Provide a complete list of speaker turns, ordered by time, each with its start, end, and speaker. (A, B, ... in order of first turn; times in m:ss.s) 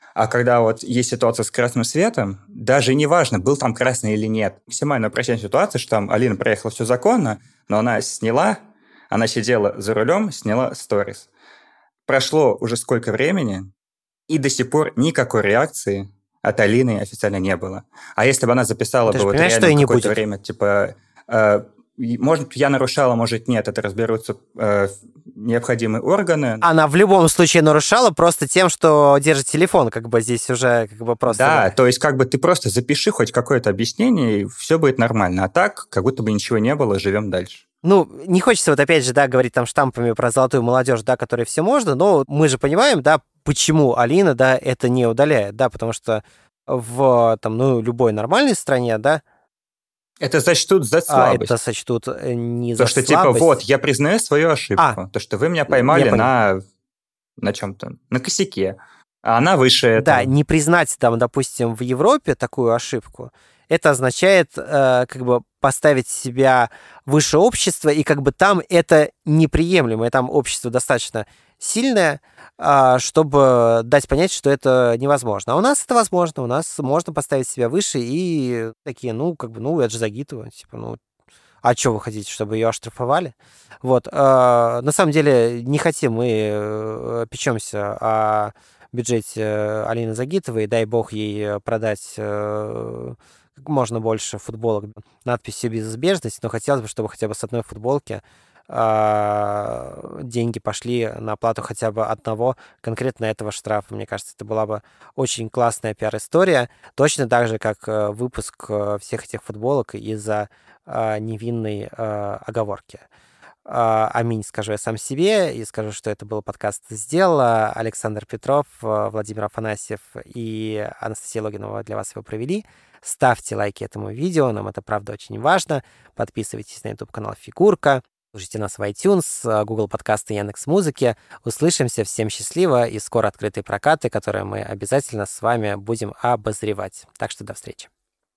0:00.2-0:08.6 A
0:09.1-0:11.3 A
0:12.1-0:13.7 A
0:14.3-0:26.6 A
0:19.1-0:20.2 B
0:26.6-0:31.7 B
0:31.3-0:37.6 A
0:37.8-0:49.2 B
0:50.2-0:51.6 A
0:51.1-0:53.6 B
0:52.8-0:56.6 A
0:55.7-0:56.3 B
0:57.4-1:00.3 A
1:00.0-1:21.0 B
1:21.6-1:53.0 B
1:53.6-2:17.9 B